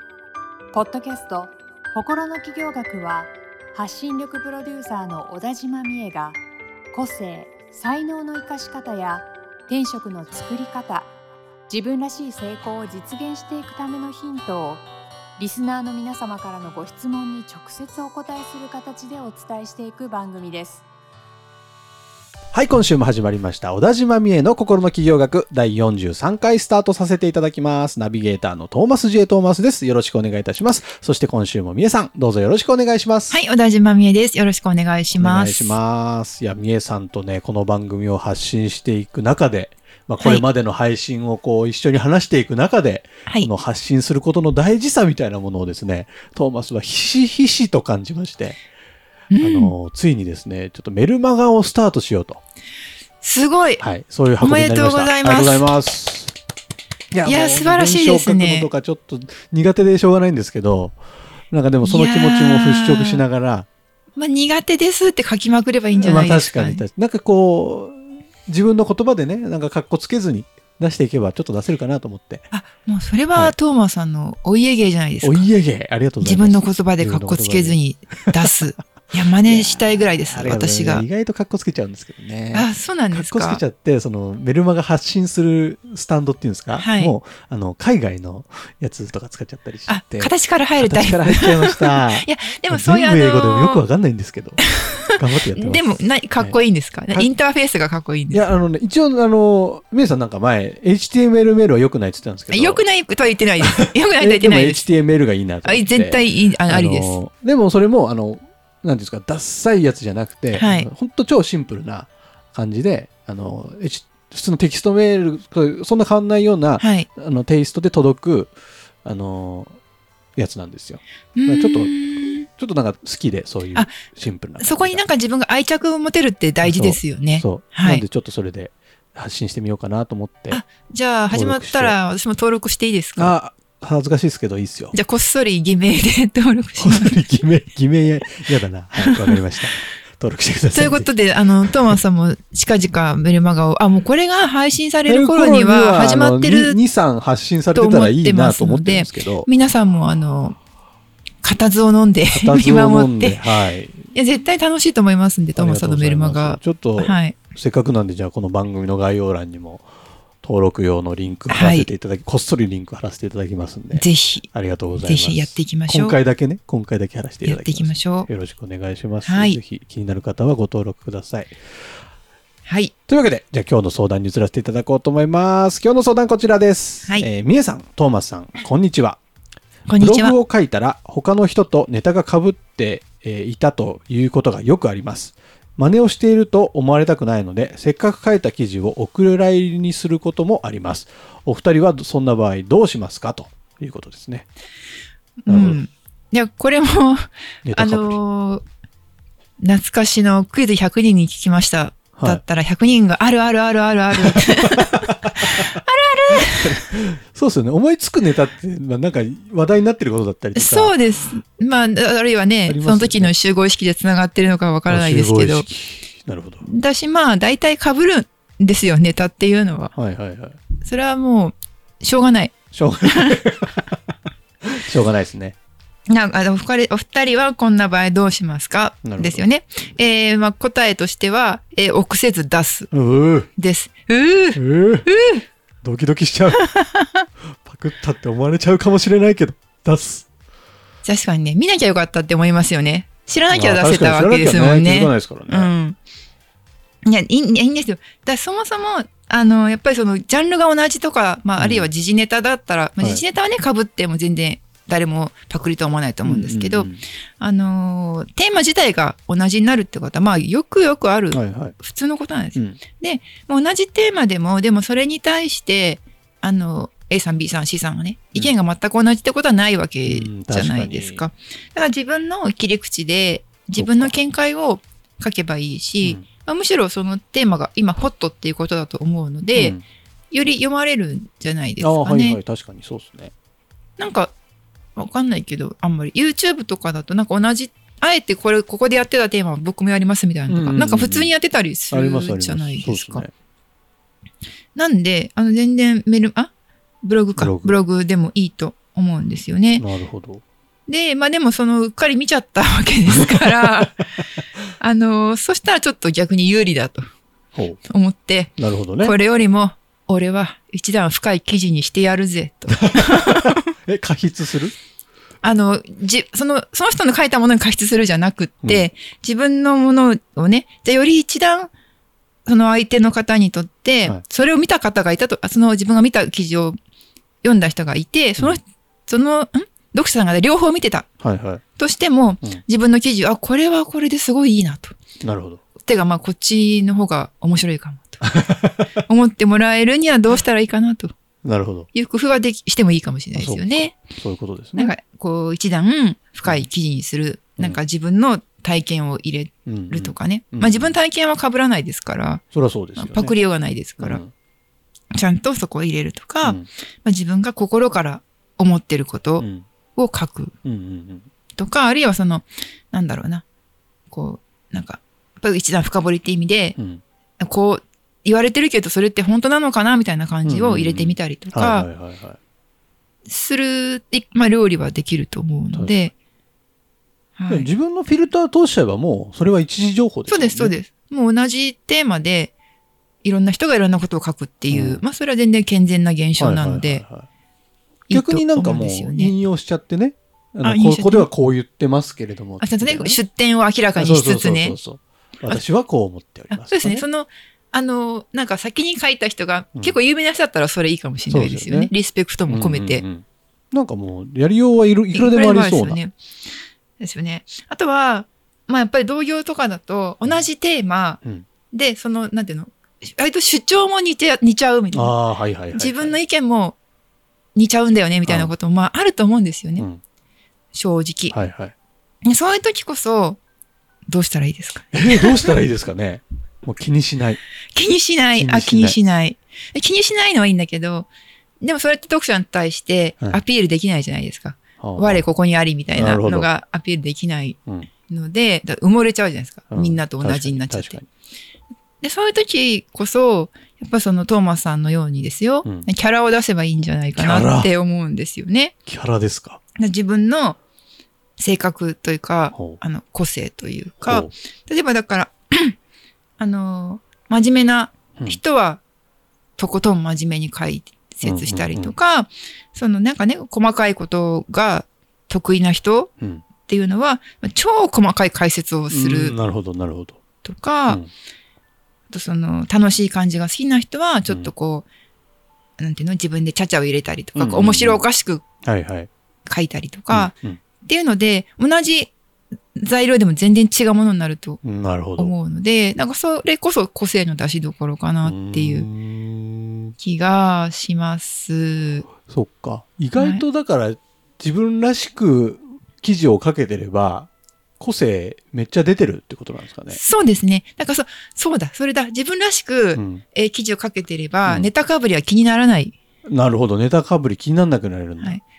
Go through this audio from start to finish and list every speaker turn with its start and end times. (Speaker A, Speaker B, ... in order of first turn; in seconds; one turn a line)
Speaker A: 0.7-6.4
Speaker A: 6.9-11.1
Speaker A: 11.7-14.8
Speaker A: 15.4-20.8
Speaker B: 22.5-33.4
Speaker C: 33.3-35.8
Speaker B: 35.1-48.6
Speaker C: 40.2-40.4
Speaker C: 49.3-49.7
Speaker B: 49.4-52.4
Speaker C: 53.2-53.8
Speaker B: 53.8-56.4
Speaker C: 54.4-55.6
Speaker B: 57.1-61.0
Speaker C: 57.2-58.7
Speaker B: 61.5-63.7
Speaker C: 61.8-63.2
Speaker C: 64.2-66.8
Speaker B: 65.9-72.5
Speaker C: 72.5-75.5
Speaker B: 75.2-78.3
Speaker C: 76.2-81.0
Speaker B: 79.4-96.6
Speaker C: 82.5-83.6
Speaker C: 86.7-87.1
Speaker C: 89.9-93.8
Speaker C: 94.6-94.9
Speaker C: 95.5-98.5
Speaker B: 98.3-102.8
Speaker C: 102.5-104.9
Speaker B: 103.6-118.5
Speaker C: 105.6-107.2
Speaker C: 110.5-110.9
Speaker C: 116.8-117.1
Speaker B: 119.0-119.8
Speaker B: 120.3-125.0
Speaker C: 121.3-122.5
Speaker C: 124.6-128.0
Speaker B: 126.6-130.6
Speaker C: 130.5-133.3
Speaker B: 131.3-131.9
Speaker B: 133.2-134.9
Speaker C: 134.9-137.2
Speaker B: 136.8-141.1
Speaker C: 139.0-139.4
Speaker C: 140.7-146.8
Speaker B: 141.6-142.0
Speaker B: 145.1-149.5
Speaker C: 147.7-150.6
Speaker C: 151.4-153.4
Speaker B: 152.3-154.1
Speaker C: 154.1-157.4
Speaker B: 155.5-159.8
Speaker B: 160.4-171.5
Speaker C: 161.5-161.9
Speaker C: 163.9-164.5
Speaker C: 165.0-166.2
Speaker C: 167.4-168.3
Speaker C: 169.2-169.6
Speaker C: 172.6-172.9
Speaker B: 173.1-179.2
Speaker C: 179.9-180.4
Speaker B: 179.9-194.5
Speaker C: 195.4-198.6
Speaker B: 195.5-195.8
Speaker B: 197.6-198.2
Speaker C: 199.6-206.9
Speaker B: 202.2-202.4
Speaker B: 204.1-205.7
Speaker B: 206.3-210.9
Speaker C: 210.5-215.7
Speaker B: 212.7-213.3
Speaker B: 214.9-216.7
Speaker C: 216.6-219.9
Speaker B: 219.9-220.6
Speaker C: 220.8-223.4
Speaker B: 222.7-223.9
Speaker B: 224.6-225.5
Speaker C: 226.1-232.9
Speaker B: 229.0-229.4
Speaker B: 232.9-233.5
Speaker C: 233.6-235.4
Speaker B: 234.5-235.1
Speaker B: 235.8-236.7
Speaker C: 236.5-237.2
Speaker B: 237.6-240.3
Speaker C: 241.0-246.0
Speaker B: 243.5-245.7
Speaker C: 247.0-279.8
Speaker B: 251.6-251.9
Speaker B: 256.2-257.0
Speaker B: 261.3-261.7
Speaker B: 262.5-262.8
Speaker B: 270.0-271.2
Speaker B: 273.8-274.1
Speaker B: 279.5-279.8
Speaker C: 280.3-282.4
Speaker B: 281.8-283.3
Speaker C: 284.0-284.3
Speaker C: 284.9-293.3
Speaker B: 290.5-291.3
Speaker B: 291.9-293.3
Speaker C: 294.7-296.5
Speaker C: 297.0-299.9
Speaker B: 297.4-297.8
Speaker B: 299.8-300.4
Speaker C: 300.9-304.1
Speaker C: 304.8-307.1
Speaker B: 307.5-307.8
Speaker C: 307.9-313.7
Speaker B: 308.6-309.1
Speaker B: 312.9-314.7
Speaker C: 315.4-321.7
Speaker C: 322.4-326.8
Speaker C: 327.4-331.1
Speaker B: 331.2-331.6
Speaker C: 331.8-334.9
Speaker B: 335.2-335.6
Speaker C: 335.8-338.3
Speaker B: 338.2-339.0
Speaker C: 339.0-341.1
Speaker B: 341.4-341.9
Speaker C: 341.9-344.0
Speaker B: 343.3-344.9
Speaker C: 344.7-352.4
Speaker B: 349.7-350.9
Speaker B: 352.5-353.4
Speaker C: 352.9-354.2
Speaker B: 354.0-354.3
Speaker C: 355.1-360.5
Speaker B: 359.4-359.6
Speaker B: 360.6-361.3
Speaker C: 361.6-363.4
Speaker C: 364.1-366.8
Speaker B: 366.8-367.0
Speaker C: 367.4-371.9
Speaker B: 370.4-372.4
Speaker C: 373.2-376.1
Speaker B: 375.7-376.0
Speaker C: 377.4-377.7
Speaker B: 377.5-380.7
Speaker C: 380.3-382.5
Speaker C: 383.2-387.0
Speaker B: 384.7-385.0
Speaker B: 386.4-387.3
Speaker C: 388.1-389.3
Speaker B: 388.1-393.2
Speaker C: 390.6-391.3
Speaker C: 392.6-394.8
Speaker B: 393.9-397.1
Speaker C: 396.5-403.0
Speaker B: 401.3-401.9
Speaker B: 402.5-406.0
Speaker C: 405.1-406.1
Speaker C: 407.0-415.1
Speaker B: 414.9-416.2
Speaker C: 415.7-416.8
Speaker C: 417.5-419.9
Speaker B: 418.2-418.5
Speaker C: 420.7-421.4
Speaker B: 421.3-421.7
Speaker C: 422.2-423.4
Speaker C: 424.1-425.6
Speaker B: 424.9-427.4
Speaker C: 427.7-431.1
Speaker B: 428.4-429.0
Speaker C: 431.6-441.0
Speaker B: 434.8-435.2
Speaker B: 435.9-436.5
Speaker B: 439.7-441.1
Speaker C: 442.0-448.7
Speaker B: 445.6-445.9
Speaker B: 447.1-447.7
Speaker B: 448.9-449.6
Speaker C: 449.8-450.6
Speaker C: 451.4-455.8
Speaker B: 454.0-454.3
Speaker C: 456.4-458.8
Speaker C: 459.6-466.1
Speaker B: 461.2-461.9
Speaker C: 466.6-469.4
Speaker B: 468.9-470.2
Speaker C: 470.4-471.0
Speaker C: 472.1-474.9
Speaker C: 475.8-478.4
Speaker B: 477.3-478.1
Speaker B: 478.6-479.1
Speaker C: 479.4-482.1
Speaker B: 480.1-480.6
Speaker C: 482.7-484.6
Speaker B: 484.6-485.3
Speaker C: 485.2-488.9
Speaker B: 488.2-489.9
Speaker C: 490.0-492.1
Speaker B: 492.2-497.3
Speaker C: 493.2-493.4
Speaker B: 497.8-500.0
Speaker C: 499.9-505.9
Speaker B: 502.9-503.2
Speaker B: 506.3-508.4